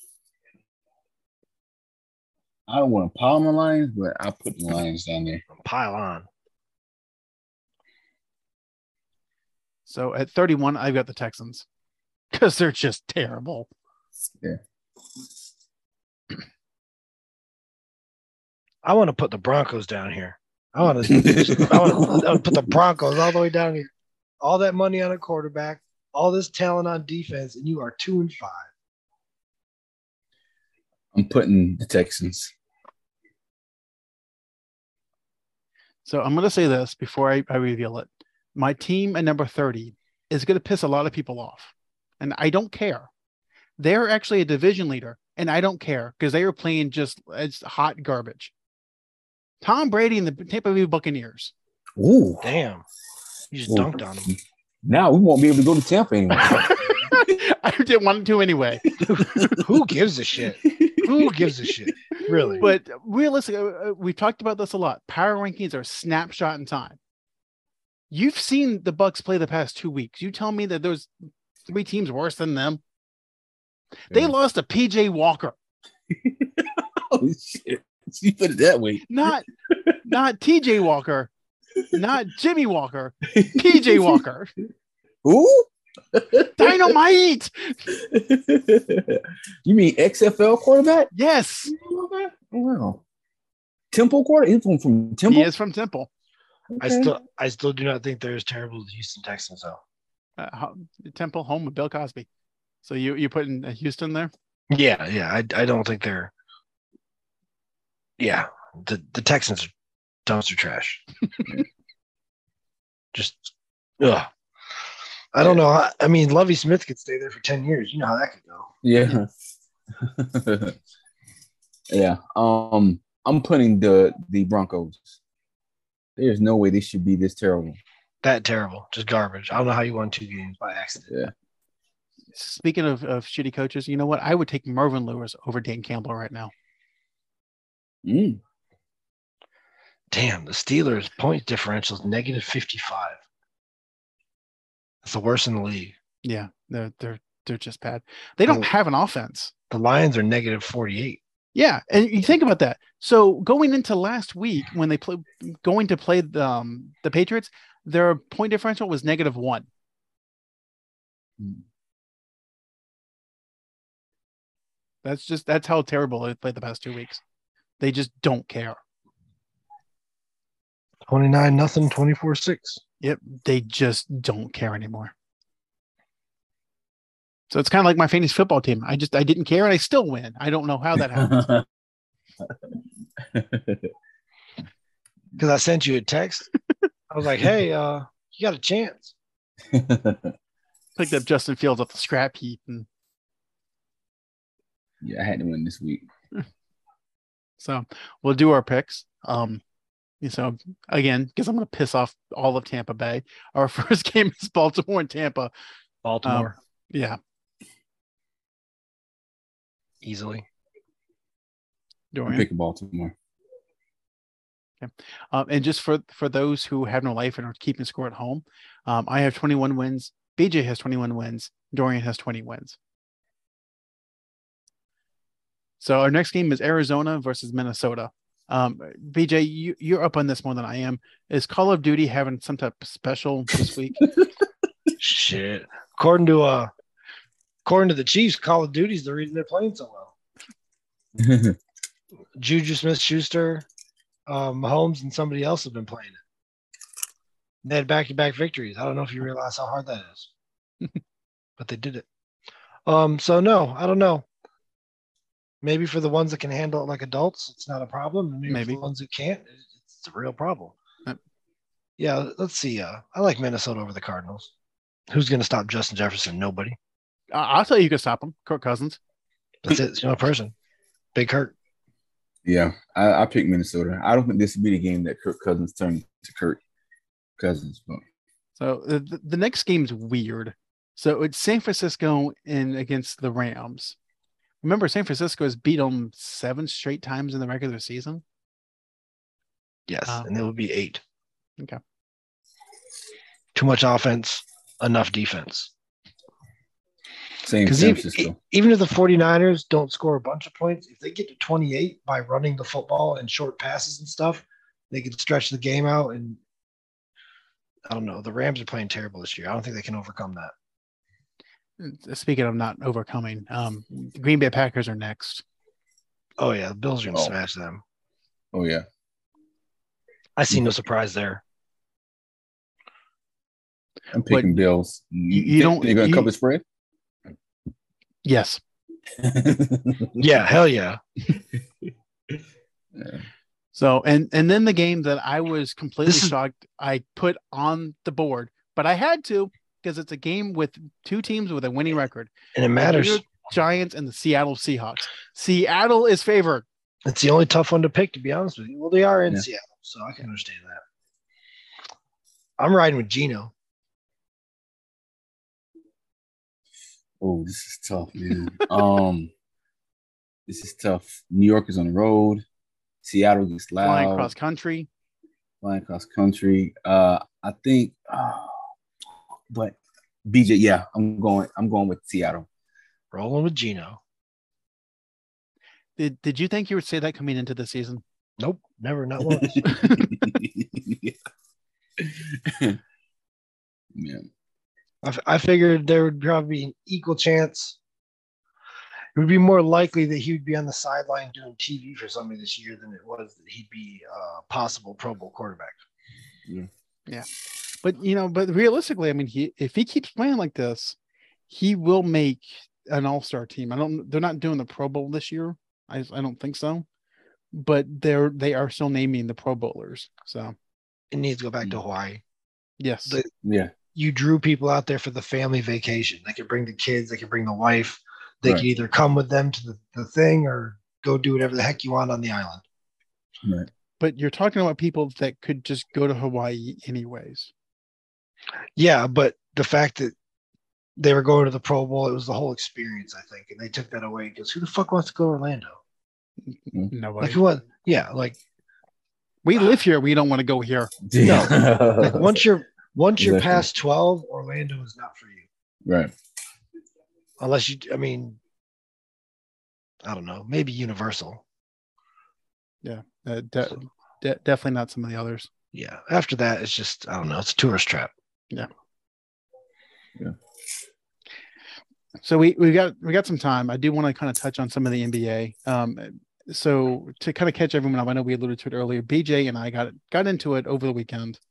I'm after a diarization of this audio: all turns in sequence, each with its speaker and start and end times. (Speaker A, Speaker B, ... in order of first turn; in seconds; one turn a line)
Speaker A: 2.7-5.4
Speaker B: 5.5-6.3
Speaker C: 9.8-11.7
Speaker C: 12.3-13.7
Speaker B: 18.8-23.9
Speaker A: 21.1-22.7
Speaker B: 24.4-28.7
Speaker A: 31.1-32.5
Speaker C: 36.0-43.1
Speaker C: 43.8-48.5
Speaker C: 49.6-51.5
Speaker A: 52.0-52.5
Speaker B: 52.4-52.8
Speaker B: 53.5-54.3
Speaker A: 53.7-57.2
Speaker C: 56.4-59.6
Speaker A: 59.0-59.6
Speaker B: 59.1-62.7
Speaker A: 60.6-61.5
Speaker A: 62.3-62.6
Speaker C: 62.6-67.0
Speaker C: 68.1-71.1
Speaker C: 71.7-72.8
Speaker C: 74.1-75.5
Speaker A: 76.1-79.1
Speaker C: 79.1-79.4
Speaker A: 79.7-80.0
Speaker C: 80.0-81.3
Speaker C: 81.9-84.5
Speaker A: 83.2-84.2
Speaker A: 85.2-86.9
Speaker C: 86.6-87.8
Speaker A: 87.9-91.1
Speaker C: 91.1-91.7
Speaker A: 91.7-93.0
Speaker A: 93.9-95.5
Speaker C: 95.3-96.1
Speaker A: 96.7-97.1
Speaker B: 96.8-99.8
Speaker C: 100.4-102.3
Speaker C: 102.8-104.3
Speaker B: 104.7-106.3
Speaker B: 108.2-109.7
Speaker B: 110.2-111.0
Speaker B: 113.1-114.3
Speaker B: 115.3-118.7
Speaker A: 118.8-119.3
Speaker A: 120.0-120.8
Speaker A: 121.9-125.2
Speaker A: 126.2-127.8
Speaker B: 128.2-131.1
Speaker C: 132.3-136.5
Speaker A: 138.0-138.4
Speaker B: 140.1-143.2
Speaker B: 145.0-145.9
Speaker C: 146.2-149.5
Speaker B: 149.7-151.2
Speaker C: 151.5-159.7
Speaker C: 165.0-167.2
Speaker C: 167.8-168.8
Speaker B: 171.1-172.8
Speaker C: 173.0-175.1
Speaker C: 177.5-181.5
Speaker A: 181.1-181.7
Speaker A: 183.2-183.9
Speaker B: 185.4-186.5
Speaker B: 187.1-189.1
Speaker A: 189.7-190.3
Speaker C: 190.9-192.9
Speaker A: 195.0-196.1
Speaker C: 197.6-199.6
Speaker C: 200.2-205.5
Speaker B: 206.0-206.5
Speaker C: 206.2-207.2
Speaker B: 210.0-210.4
Speaker C: 212.1-212.5
Speaker A: 212.2-213.1
Speaker C: 214.8-222.8
Speaker C: 225.8-234.0
Speaker B: 235.0-236.7
Speaker B: 237.6-240.1
Speaker A: 241.2-241.6
Speaker B: 242.4-243.7
Speaker B: 244.3-246.2
Speaker B: 247.6-250.3
Speaker B: 251.6-252.0
Speaker B: 252.8-254.2
Speaker B: 255.6-260.8
Speaker C: 258.5-258.8
Speaker B: 262.0-264.5
Speaker B: 265.1-266.8
Speaker C: 267.3-269.0
Speaker B: 269.6-270.5
Speaker B: 271.1-271.5
Speaker A: 272.4-276.6
Speaker A: 277.4-278.0
Speaker C: 278.6-284.0
Speaker C: 284.6-288.2
Speaker B: 289.9-291.0
Speaker B: 293.5-295.7
Speaker A: 297.4-298.4
Speaker B: 297.6-306.4
Speaker B: 307.9-310.5
Speaker C: 311.8-315.4
Speaker B: 316.4-317.8
Speaker A: 318.5-318.9
Speaker B: 320.4-321.4
Speaker A: 324.1-326.6
Speaker C: 324.3-324.6
Speaker C: 325.3-326.3
Speaker C: 328.2-328.6
Speaker A: 329.2-330.3
Speaker B: 330.2-331.0
Speaker A: 331.3-332.4
Speaker A: 332.9-333.2
Speaker C: 333.7-346.6
Speaker B: 336.1-336.3
Speaker B: 342.5-343.2
Speaker B: 347.0-350.8
Speaker B: 352.6-353.5
Speaker A: 357.2-359.3
Speaker A: 360.5-362.4
Speaker A: 363.0-364.3
Speaker C: 363.8-364.9
Speaker A: 365.6-368.7
Speaker A: 369.5-372.5
Speaker B: 373.1-374.0
Speaker C: 376.0-378.0
Speaker B: 378.4-379.7
Speaker A: 379.2-381.2
Speaker C: 379.6-380.2
Speaker A: 382.0-382.8
Speaker A: 383.9-384.3
Speaker B: 385.0-387.8
Speaker B: 389.1-395.8
Speaker C: 397.8-400.9
Speaker C: 401.5-406.9
Speaker C: 407.5-410.5
Speaker B: 411.1-412.2
Speaker C: 412.8-413.2
Speaker A: 413.4-413.7
Speaker B: 413.9-422.6
Speaker A: 423.4-423.7
Speaker C: 424.0-427.5
Speaker B: 428.8-430.1
Speaker B: 431.0-435.8
Speaker C: 436.9-437.4
Speaker B: 437.2-438.4
Speaker C: 439.4-440.9
Speaker A: 441.1-442.4
Speaker B: 441.2-445.5
Speaker A: 443.2-443.7
Speaker A: 445.8-446.1
Speaker B: 447.4-448.4
Speaker B: 450.0-451.4
Speaker C: 452.8-455.5
Speaker B: 455.7-458.1
Speaker C: 462.2-471.4